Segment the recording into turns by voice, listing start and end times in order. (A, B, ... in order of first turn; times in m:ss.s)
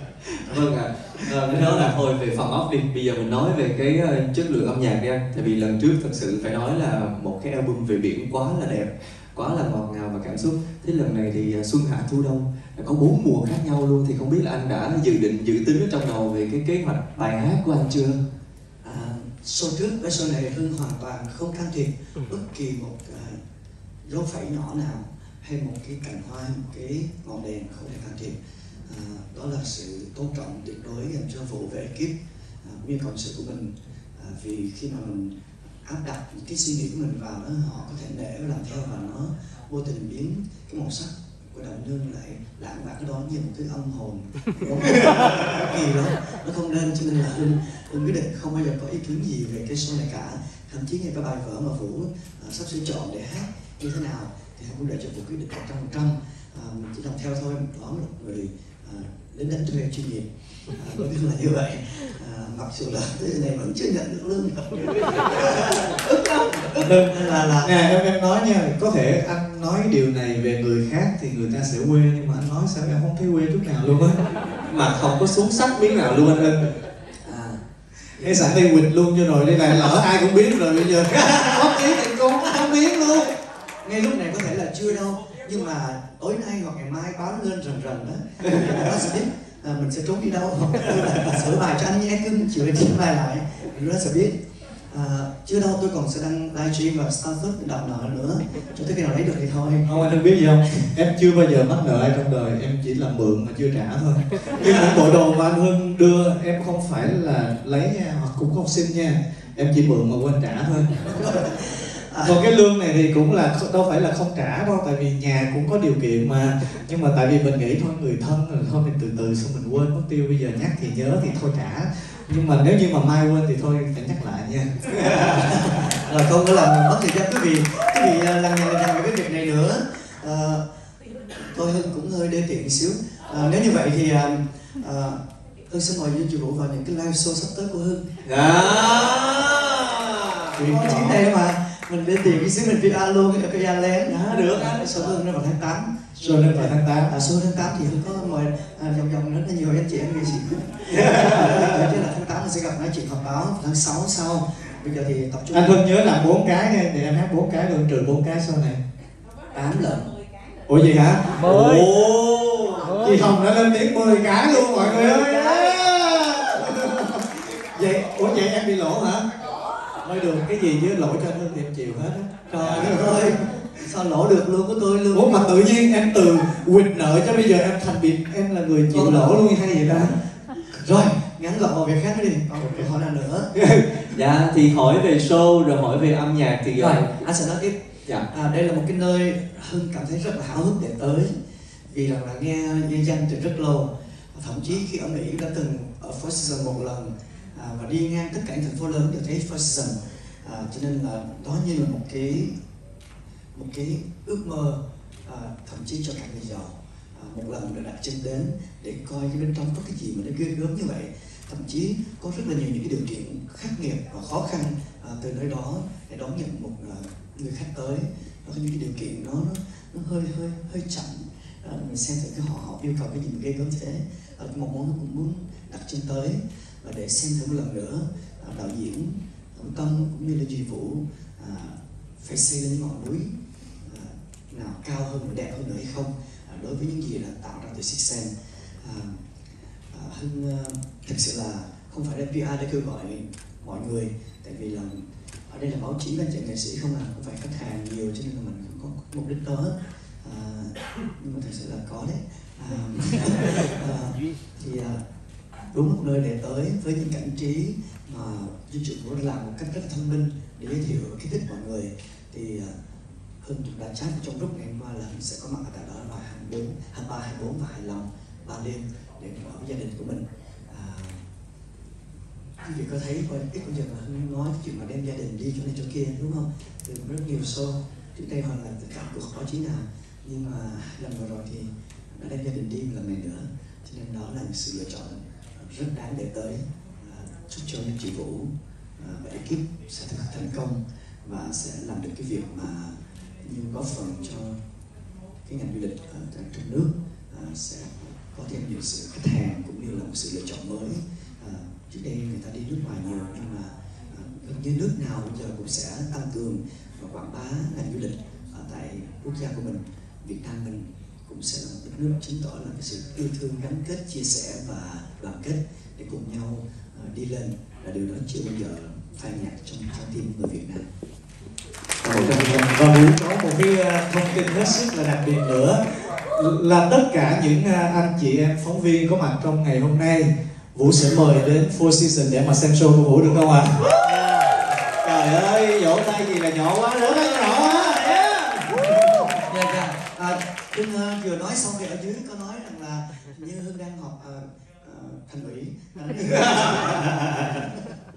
0:00.4-0:18.2 A
0:01.5-0:01.9 B
0:18.8-0:23.4 C
0:24.0-1:07.7 C
1:06.8-1:14.2 B
1:14.7-1:15.3 A
1:15.1-1:16.7 B
1:17.2-1:17.6 C
1:18.1-1:23.3 B
1:23.8-1:34.4 C
1:34.9-1:39.9 C
1:39.8-1:51.4 B
1:44.6-1:45.0 C
1:51.2-1:52.4 C
1:52.2-2:05.4 B
2:05.2-2:10.6 C
2:11.4-2:18.1 C
2:18.2-2:20.5 A
2:20.6-2:21.2 B
2:20.6-2:35.8 C
2:24.0-2:25.2 A
2:26.1-2:27.1 B
2:30.9-2:31.8 A
2:35.5-2:38.8 B
2:39.5-2:40.1 C
2:40.7-2:41.9 B
2:41.4-2:43.0 A
2:42.8-2:49.2 B
2:44.3-2:45.8 C
2:50.0-2:53.3 B
2:52.5-2:55.5 C
2:55.1-3:00.2 B
2:58.9-3:00.1 C
3:00.8-3:03.5 C
3:03.5-3:07.1 A
3:06.8-3:11.3 C
3:11.9-3:22.5 C
3:23.5-3:53.3 C
3:53.8-3:59.2 C
3:59.9-4:15.0 C
4:15.7-4:22.7 C
4:23.4-4:31.2 C
4:32.6-4:54.6 C
4:55.4-5:20.8 C
5:22.0-5:22.7 A
5:22.0-5:25.8 B
5:26.3-5:33.9 B
5:35.0-5:35.3 A
5:35.1-5:39.4 B
5:37.1-5:37.5 A
5:39.4-5:47.7 C
5:46.6-5:47.3 A